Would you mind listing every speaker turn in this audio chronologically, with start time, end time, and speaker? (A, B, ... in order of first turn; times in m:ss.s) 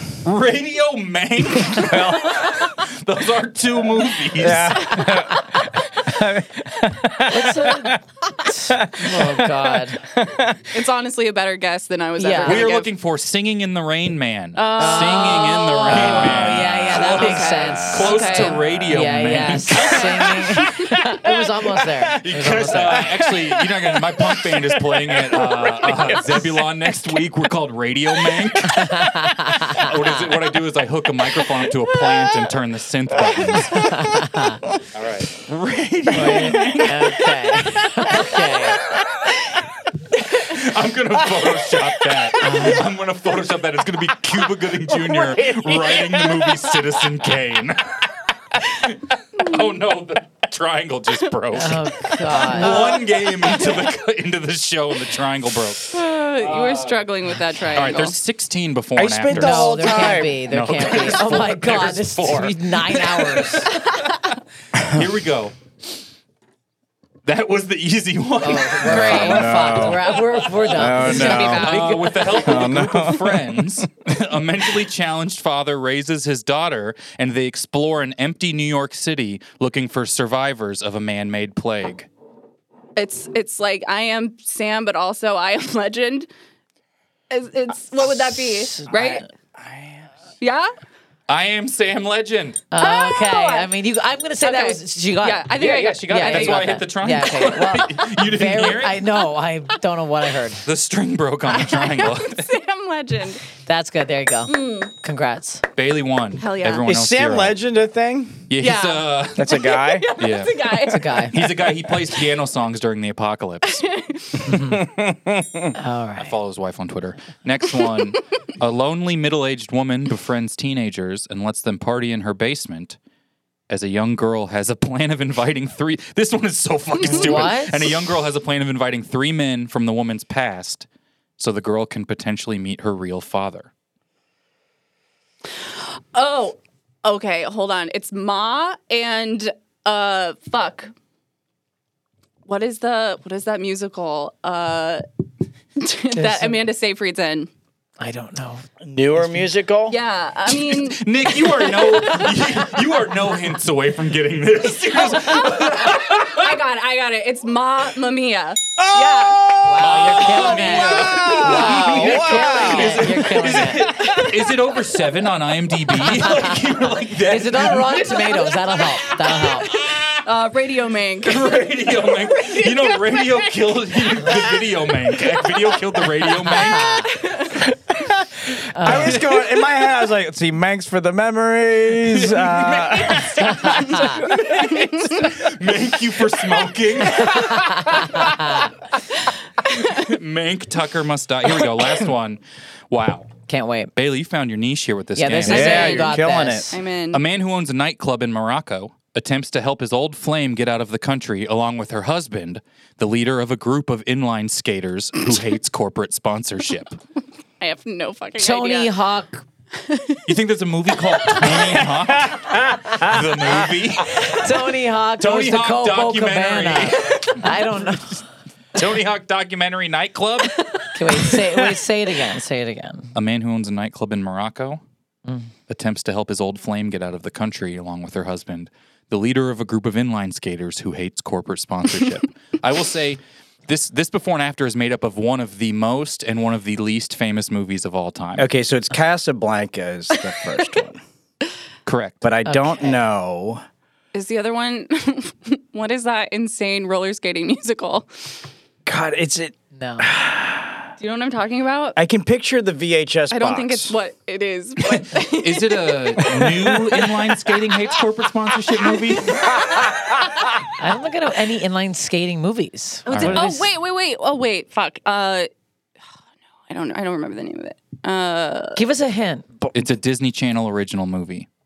0:00.2-0:05.2 A
0:01.7-0:02.5 B
0:04.3-0:10.7 B
0:04.9-0:05.3 C
0:07.3-0:10.0 D
0:10.7-0:12.9 C
0:12.2-0:12.7 D
0:12.4-0:21.0 A
0:14.6-0:18.6 C
0:14.8-0:23.1 D
0:17.5-0:19.2 B
0:22.1-0:34.2 A
0:22.6-0:26.7 B
0:28.8-0:29.8 D
0:33.8-0:34.6 D
0:34.9-0:37.2 A
0:36.2-0:38.8 D
0:40.1-0:57.0 A
0:42.4-0:42.7 D
0:44.9-0:46.6 B
0:51.5-0:52.9 D
0:52.6-0:53.8 C
0:55.9-0:58.2 C
0:57.7-1:04.1 A
0:59.0-1:00.5 B
0:59.3-1:03.7 D
1:04.8-1:05.6 A
1:07.2-1:22.1 A
1:08.4-1:12.3 D
1:08.8-1:13.9 B
1:23.0-1:26.3 C
1:27.3-1:29.2 C
1:28.7-1:29.2 D
1:29.6-1:30.1 B
1:30.4-1:30.7 C
1:31.3-1:32.6 A
1:32.7-1:40.6 D
1:32.8-1:33.7 C
1:34.4-1:36.8 C
1:35.6-1:39.1 A
1:40.6-1:42.5 A
1:41.5-1:43.4 C
1:43.6-1:45.6 D
1:44.5-1:44.9 C
1:45.8-1:47.6 A
1:46.4-1:46.9 C
1:46.8-1:48.5 B
1:48.5-1:49.6 A
1:48.6-1:52.2 C
1:49.4-1:50.1 B
1:50.2-1:50.6 A
1:50.9-1:51.4 D
1:51.3-1:53.9 A
1:53.7-1:54.5 C
1:54.5-1:55.7 B
1:55.8-1:56.3 D
1:56.2-2:03.0 A
2:03.7-2:10.9 A
2:07.1-2:07.9 D
2:11.4-2:13.7 A
2:15.6-2:20.9 C
2:22.5-2:25.0 C
2:25.8-2:27.5 C
2:26.2-2:26.6 D
2:28.0-2:28.6 D
2:28.8-2:30.0 B
2:29.9-2:32.7 C
2:30.5-2:36.5 A
2:34.9-2:39.6 C
2:38.8-2:43.4 B
2:39.6-2:44.0 D
2:39.8-2:50.2 A
2:47.3-2:49.7 D
2:50.2-2:53.4 C
2:51.2-2:57.1 A
2:56.4-2:57.6 C
2:57.9-3:04.6 B
2:58.8-2:59.2 D
3:02.0-3:08.7 A
3:07.9-3:08.6 D
3:09.6-3:13.3 A
3:13.5-3:13.9 D
3:14.0-3:16.1 A
3:15.2-3:16.8 D
3:15.4-3:16.8 B
3:15.6-3:16.1 C
3:16.7-3:17.2 C
3:17.1-3:27.0 A
3:27.6-3:28.9 C
3:28.4-3:29.4 D
3:29.8-3:30.2 C
3:30.3-3:34.5 A
3:32.3-3:33.1 B
3:34.2-3:38.2 D
3:35.2-3:37.8 A
3:38.8-3:40.9 A
3:40.9-3:43.1 D
3:43.1-3:44.8 A
3:45.7-3:58.5 A
3:58.4-4:01.0 B
4:01.9-4:02.3 A
4:02.2-4:03.6 B
4:02.4-4:03.0 D
4:04.1-4:08.3 C
4:08.9-4:10.9 B
4:09.8-4:10.1 D
4:11.0-4:12.0 C
4:12.0-4:13.9 B
4:13.3-4:16.8 C
4:14.9-4:19.6 A
4:20.8-4:23.7 D
4:23.1-4:25.5 C
4:23.1-4:23.5 A
4:26.7-4:28.8 C
4:28.8-4:29.5 D
4:29.7-4:31.5 A